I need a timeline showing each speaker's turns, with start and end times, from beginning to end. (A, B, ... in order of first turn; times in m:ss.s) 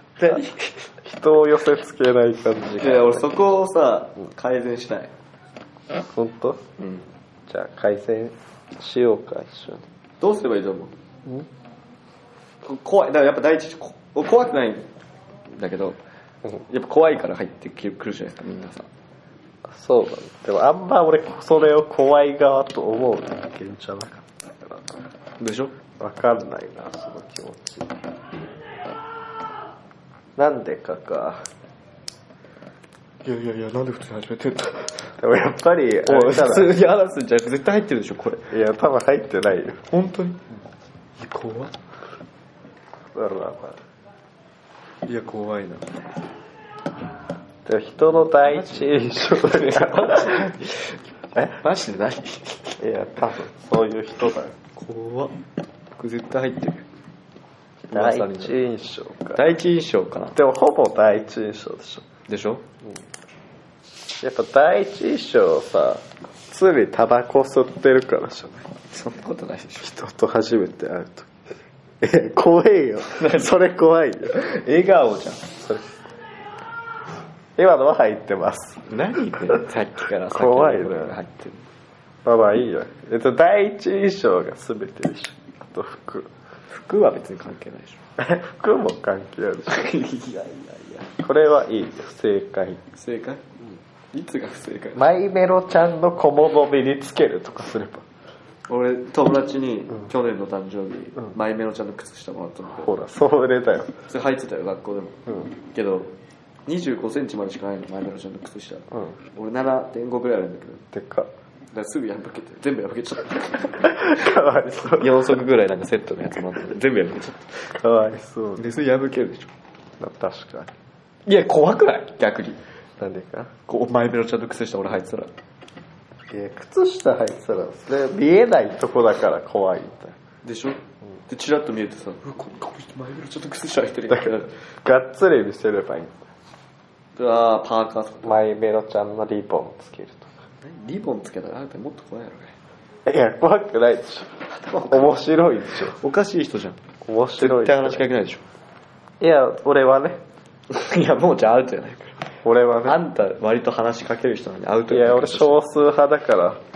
0:00.2-0:00.9 A
0:01.0-0:03.3 B
0:02.8-0:05.1 A
0:06.1-0:06.6 B
0:06.8-0:07.0 A
0:07.5-0:09.8 B
0:10.2-0:10.9 A
0:12.6-0:14.9 A
0:15.5-0:16.0 A
0:16.7-0:18.9 A
0:19.7-0:25.0 B
0:25.4-0:25.7 A
0:26.0-0:27.9 B
0:30.4-0:31.4 B
0:33.2-0:34.9 A
0:35.2-0:36.8 B
0:36.0-0:38.4 A
0:38.5-0:39.8 B
0:39.9-0:40.4 A
0:41.2-0:41.7 A
0:43.1-0:43.8 B
0:45.0-0:45.9 A
0:47.6-0:50.5 B
0:48.4-0:52.8 A
0:52.8-0:54.5 B
0:54.8-0:55.3 A
0:55.9-0:56.8 A
0:57.9-0:59.4 B
0:57.9-0:58.5 A
0:59.4-1:00.3 A
1:00.3-1:02.0 B
1:02.3-1:02.6 A
1:04.2-1:08.7 B
1:08.9-1:09.9 A
1:09.8-1:11.3 B
1:12.0-1:14.4 B
1:13.1-1:13.6 A
1:14.3-1:15.5 A
1:17.6-1:18.8 B
1:18.9-1:21.6 A
1:20.3-1:21.2 B
1:22.2-1:26.3 B
1:26.7-1:28.0 A
1:28.2-1:29.9 B
1:29.7-1:31.1 A
1:31.2-1:32.8 B
1:32.9-1:33.4 A
1:34.1-1:35.0 A
1:35.0-1:38.0 B
1:38.7-1:42.9 A
1:42.8-1:43.9 B
1:44.1-1:46.1 A
1:46.7-1:50.8 A
1:50.9-1:51.3 B
1:51.7-1:54.3 A
1:53.8-1:55.3 B
1:54.8-1:57.7 A
1:57.7-1:58.6 B
1:58.6-1:59.5 A
2:00.0-2:00.7 B
2:01.2-2:02.6 A
2:03.0-2:03.5 B
2:03.7-2:05.3 A
2:06.3-2:10.1 B
2:10.4-2:14.5 A
2:14.1-2:16.1 B
2:17.2-2:18.4 A
2:18.2-2:20.3 B
2:20.6-2:22.5 A
2:23.0-2:24.3 B
2:24.5-2:25.2 A
2:24.9-2:26.0 B
2:25.9-2:26.8 A
2:27.0-2:28.0 B
2:27.4-2:28.4 A
2:29.2-2:30.2 B
2:30.7-2:32.2 A
2:32.4-2:33.0 B
2:32.8-2:35.6 A
2:34.9-2:36.6 B